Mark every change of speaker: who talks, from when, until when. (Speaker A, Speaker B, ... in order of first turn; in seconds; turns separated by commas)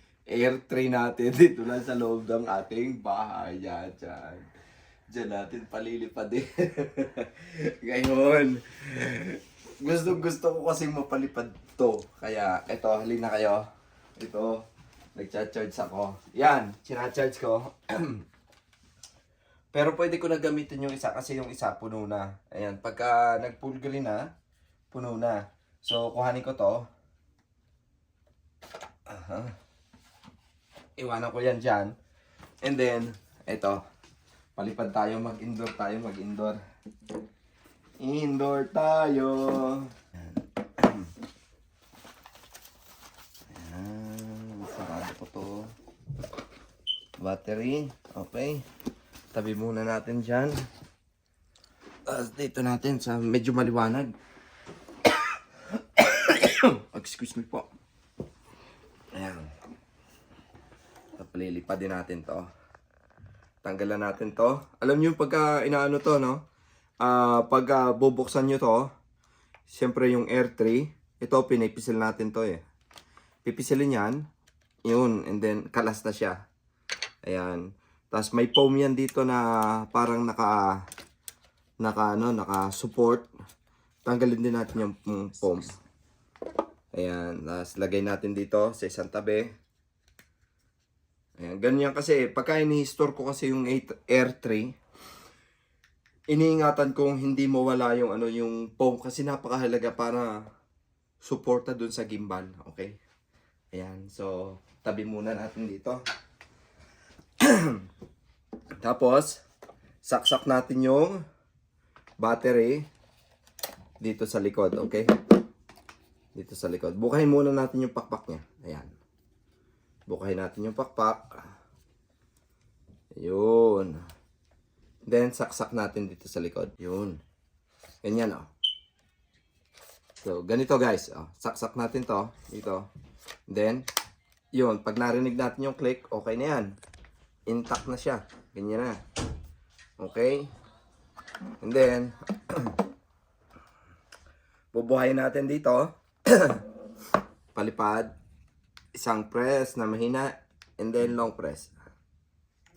Speaker A: 0.3-4.5, Speaker A: 5.1-13.6, Speaker A: 14.2-14.6, Speaker A: 15.2-18.2, Speaker A: 19.7-24.2, Speaker A: 24.9-26.8, Speaker A: 29.1-29.5, Speaker A: 31.0-31.9, Speaker A: 32.6-33.8, Speaker A: 34.6-36.6, Speaker A: 38.0-41.1, Speaker A: 43.5-45.7, Speaker A: 47.2-48.6, Speaker A: 49.3-50.5, Speaker A: 52.1-54.1, Speaker A: 56.0-57.7, Speaker A: 59.1-59.5, Speaker A: 61.2-62.5, Speaker A: 63.6-66.4, Speaker A: 67.0-68.9, Speaker A: 69.7-72.6, Speaker A: 73.5-74.2, Speaker A: 74.8-76.4, Speaker A: 77.2-80.8, Speaker A: 81.8-83.3, Speaker A: 84.0-85.7, Speaker A: 86.9-89.5, Speaker A: 91.4-94.8, Speaker A: 96.3-100.4, Speaker A: 101.2-103.0, Speaker A: 103.7-106.0, Speaker A: 107.4-107.8, Speaker A: 108.8-109.4, Speaker A: 110.0-111.2, Speaker A: 112.2-112.8, Speaker A: 114.0-115.1, Speaker A: 116.3-118.9, Speaker A: 120.1-121.3, Speaker A: 123.2-124.0, Speaker A: 125.1-127.2, Speaker A: 128.0-128.5, Speaker A: 130.2-132.8, Speaker A: 133.5-133.8, Speaker A: 134.5-136.8, Speaker A: 137.5-139.0, Speaker A: 140.0-140.5, Speaker A: 141.6-142.7, Speaker A: 144.7-146.6, Speaker A: 147.5-148.1, Speaker A: 149.0-151.7